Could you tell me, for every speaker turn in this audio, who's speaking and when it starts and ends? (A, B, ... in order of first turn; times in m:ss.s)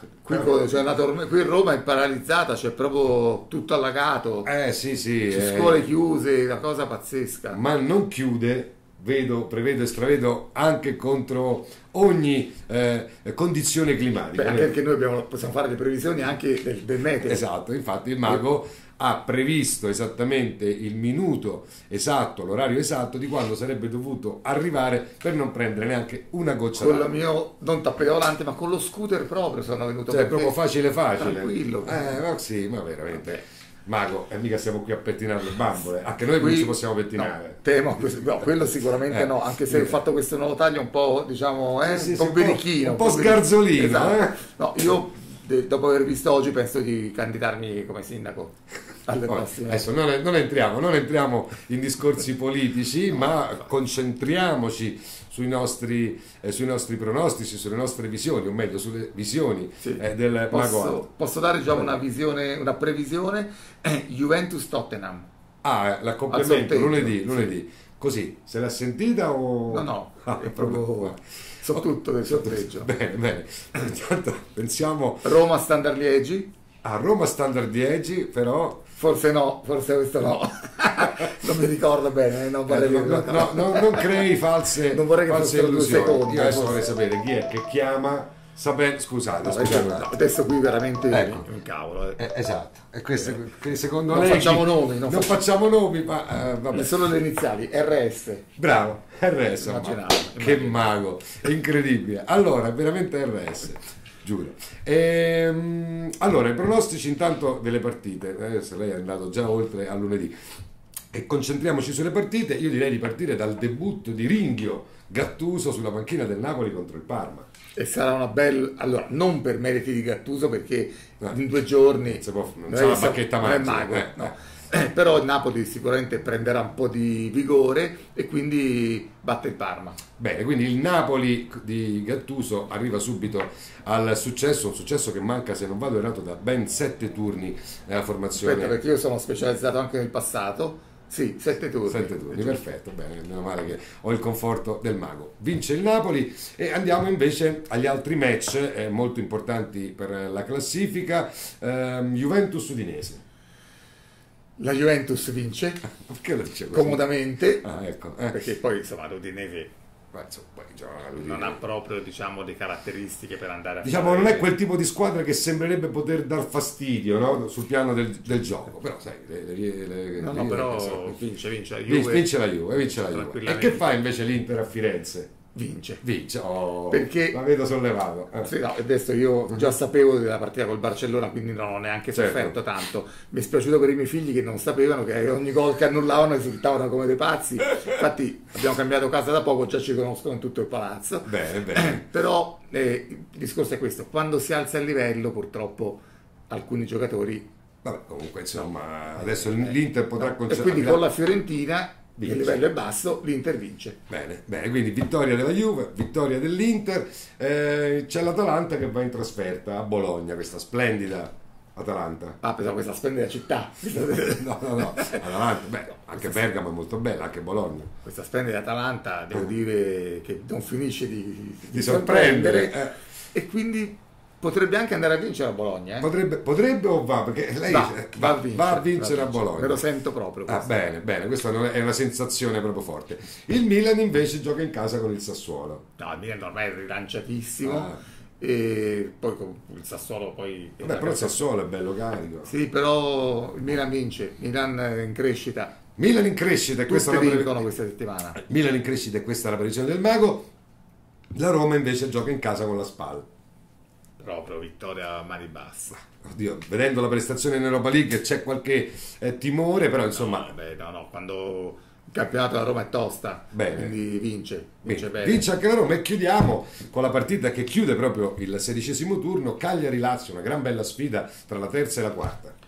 0:00.3-0:04.5 A
0:04.4-0:05.8 B
0:05.3-0:07.6 A
0:07.5-0:14.8 B
0:14.4-0:17.4 A
0:17.2-0:27.1 B
0:26.8-0:30.6 A
0:30.1-0:37.6 B
0:31.2-0:32.2 A
0:36.4-0:49.8 A
0:39.1-0:40.0 B
0:41.8-0:44.4 B
0:49.3-1:01.1 B
0:59.8-1:05.3 A
1:01.7-1:02.0 B
1:05.6-1:15.4 B
1:06.3-1:07.4 A
1:09.7-1:12.9 A
1:15.2-1:16.5 A
1:16.8-1:18.8 B
1:19.0-1:24.2 A
1:22.7-1:30.2 B
1:24.9-1:26.8 A
1:29.4-1:32.2 A
1:31.1-1:31.5 B
1:32.2-1:37.0 B
1:34.1-1:35.4 A
1:36.7-1:38.5 A
1:38.6-1:50.3 B
1:39.6-1:40.9 A
1:51.1-1:57.5 B
1:57.8-2:10.0 A
2:02.2-2:04.3 B
2:10.2-2:18.8 B
2:18.4-2:22.6 A
2:21.9-2:33.2 B
2:34.6-2:35.8 A
2:36.0-2:37.1 B
2:36.7-2:37.7 A
2:37.6-2:38.4 B
2:38.3-2:39.7 A
2:40.1-2:41.6 B
2:41.2-2:44.5 A
2:43.8-2:51.2 B
2:50.2-2:54.0 A
2:51.9-2:55.3 B
2:55.5-2:56.0 A
2:56.0-2:58.5 B
2:56.9-2:57.4 A
2:58.4-3:17.5 A
3:02.1-3:02.6 B
3:11.2-3:12.1 B
3:17.8-3:21.1 B
3:19.2-3:24.0 A
3:22.2-3:22.7 B
3:24.1-3:32.4 B
3:32.4-3:35.3 A
3:34.1-3:37.9 B
3:38.0-3:46.1 A
3:41.7-3:43.0 B
3:46.0-3:49.8 B
3:47.7-3:50.8 A
3:50.5-3:55.8 B
3:56.0-4:01.5 A
3:57.6-3:58.0 B
4:00.8-4:02.5 B
4:02.4-4:05.8 A
4:06.0-4:07.7 B
4:06.9-4:08.4 A
4:08.4-4:10.5 B
4:11.3-4:13.3 B
4:14.2-4:16.0 A
4:16.2-4:20.6 B
4:20.1-4:25.4 A
4:23.5-4:24.0 B
4:24.8-4:32.6 B